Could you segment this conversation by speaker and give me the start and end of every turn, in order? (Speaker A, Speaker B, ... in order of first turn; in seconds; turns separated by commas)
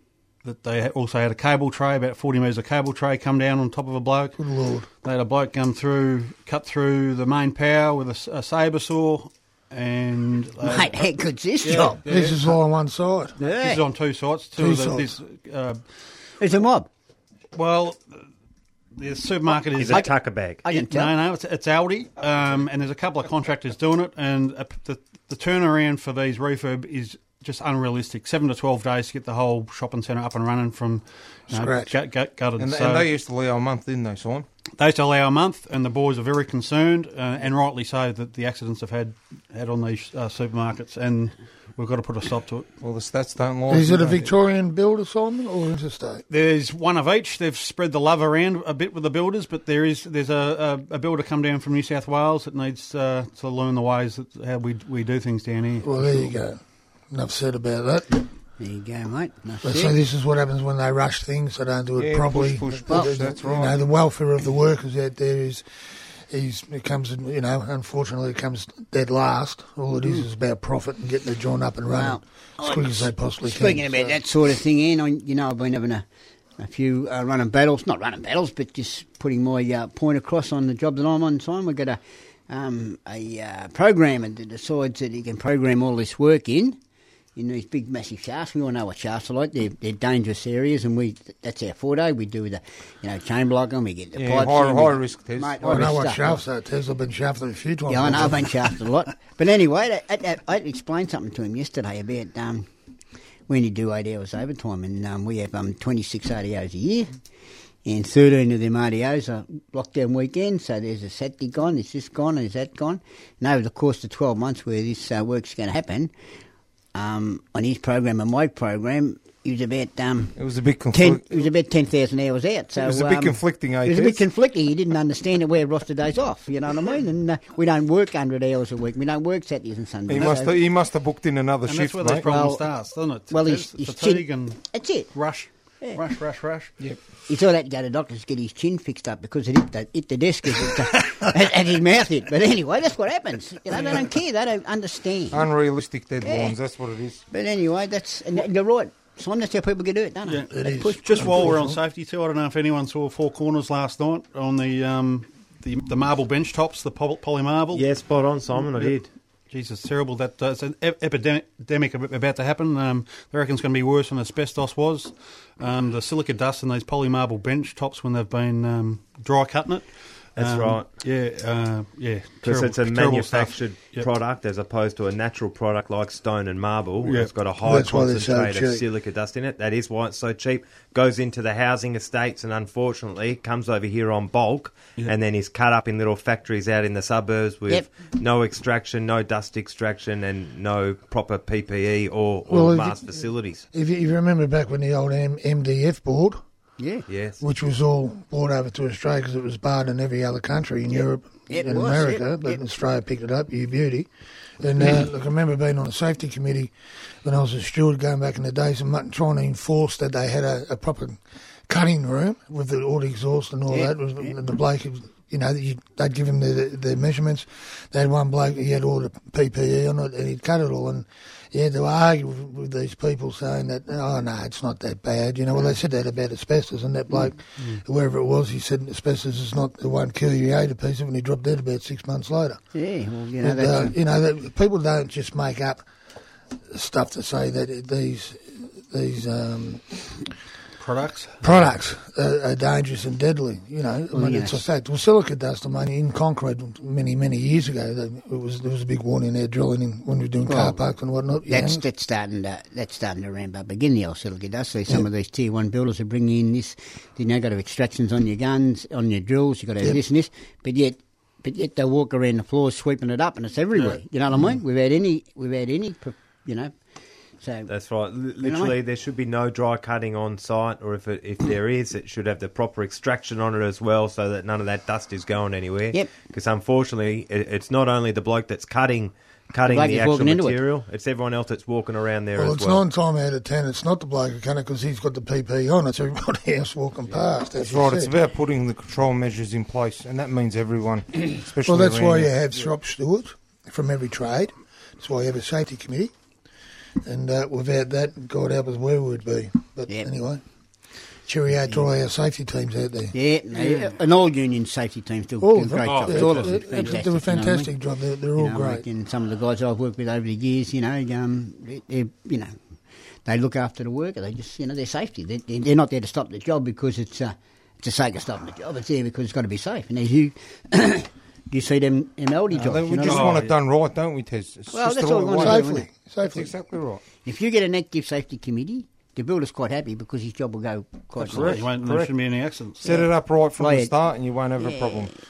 Speaker A: 0.4-4.4, Speaker B: 4.4-4.9, Speaker A: 5.0-11.0, Speaker C: 10.6-12.0, Speaker A: 11.6-12.6, Speaker B: 12.1-13.4, Speaker A: 13.4-15.8, Speaker C: 13.4-13.9, Speaker B: 14.6-15.1, Speaker C: 16.4-16.9, Speaker A: 17.5-18.2, Speaker A: 19.0-20.1, Speaker D: 19.8-20.6, Speaker C: 19.8-20.1, Speaker C: 20.6-21.1, Speaker A: 20.7-33.1, Speaker B: 31.5-31.9, Speaker E: 32.6-34.5, Speaker A: 34.8-42.7, Speaker E: 42.8-44.3, Speaker B: 43.7-46.2, Speaker A: 46.3-56.4, Speaker B: 55.8-56.6, Speaker B: 57.1-58.2, Speaker C: 58.6-59.9, Speaker B: 59.6-65.7, Speaker E: 62.0-63.8, Speaker B: 66.3-74.2, Speaker C: 71.9-76.0, Speaker C: 76.6-86.8, Speaker C: 87.4-96.4, Speaker E: 94.2-96.0, Speaker B: 95.6-98.5, Speaker C: 97.9-102.7, Speaker C: 103.5-107.2, Speaker C: 107.8-116.1, Speaker C: 116.9-120.3, Speaker E: 120.4-121.5, Speaker C: 120.9-130.6, Speaker E: 122.8-124.2, Speaker E: 130.1-132.3, Speaker A: 131.7-136.7, Speaker C: 132.3-132.6, Speaker C: 133.3-135.1, Speaker C: 137.3-145.5, Speaker E: 145.3-147.2, Speaker C: 146.2-146.6, Speaker C: 147.3-151.5, Speaker A: 150.3-157.8, Speaker B: 150.5-151.8, Speaker D: 157.7-159.1, Speaker A: 159.5-174.1, Speaker D: 170.4-170.9, Speaker D: 172.4-193.6, Speaker A: 177.0-177.3, Speaker B: 177.6-178.8, Speaker B: 192.5-193.0, Speaker B: 193.7-196.4, Speaker C: 196.8-197.1, Speaker D: 197.1-197.4, Speaker B: 197.4-206.7, Speaker C: 201.0-202.6, Speaker B: 207.2-232.6, Speaker C: 213.7-214.3, Speaker C: 232.7-233.9, Speaker B: 233.4-235.8, Speaker B: 236.7-240.1, Speaker A: 240.8-241.5, Speaker B: 241.4-251.8, Speaker C: 244.1-244.6, Speaker C: 250.5-250.8, Speaker C: 251.5-266.7, Speaker A: 263.8-264.0, Speaker C: 267.4-267.7, Speaker D: 267.7-282.8, Speaker C: 268.4-268.7, Speaker C: 279.7-280.6, Speaker B: 282.4-288.1, Speaker E: 287.6-292.3, Speaker B: 291.6-296.1, Speaker B: 297.0-300.4, Speaker B: 301.3-303.1, Speaker C: 303.1-307.7, Speaker B: 305.4-308.9, Speaker A: 305.8-307.0, Speaker C: 308.4-312.6, Speaker C: 313.2-323.4, Speaker E: 322.5-325.7, Speaker A: 323.0-323.6, Speaker C: 324.7-325.9, Speaker B: 325.4-326.5, Speaker E: 326.3-327.0, Speaker C: 327.2-331.6, Speaker E: 331.2-332.1, Speaker A: 331.3-332.9, Speaker E: 332.8-335.1, Speaker C: 333.6-333.9, Speaker C: 334.6-335.0